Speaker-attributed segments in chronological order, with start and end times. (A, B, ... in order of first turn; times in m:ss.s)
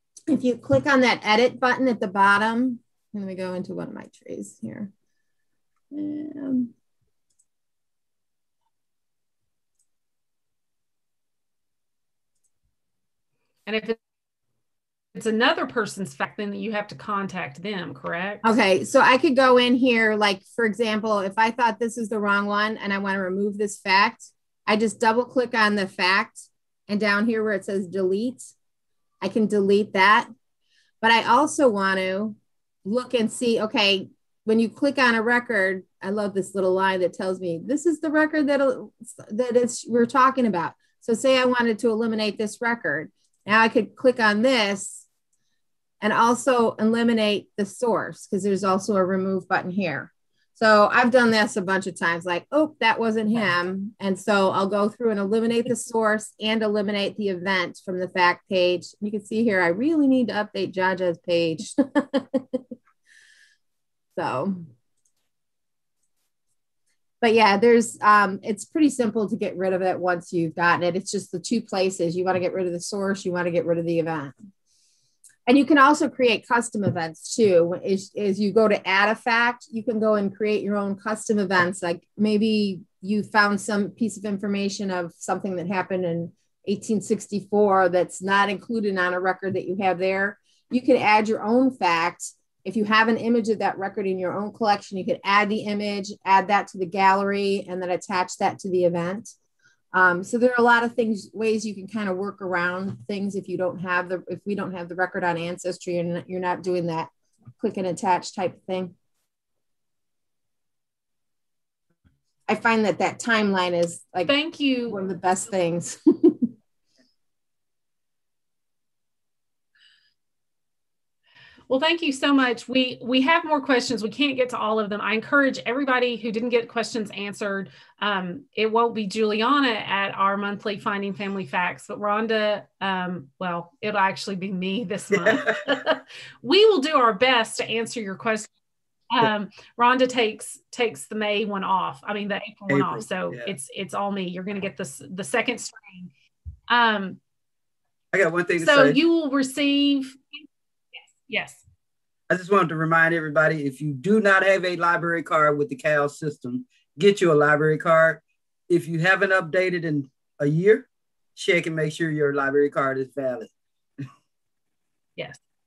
0:00.3-0:04.9 A
0:05.9-0:06.7 A
0:13.6-0:14.0 B
0:15.1-0:18.5 B
0:18.4-0:28.5 A
0:29.2-0:30.3 A
0:31.0-0:45.0 A
0:46.0-1:02.6 A
1:04.2-1:04.7 A
1:07.2-1:14.3 A
1:15.4-1:39.3 A
1:39.9-1:48.9 A
1:52.5-1:54.3 A
1:54.2-1:55.0 B
1:54.8-1:56.5 A
2:01.7-2:18.5 B
2:15.1-2:15.8 C
2:19.1-2:26.1 B
2:22.7-2:23.5 C
2:26.7-2:27.2 B
2:28.1-2:29.0 C
2:28.6-2:30.4 B
2:31.0-2:31.6 B
2:32.3-2:43.5 C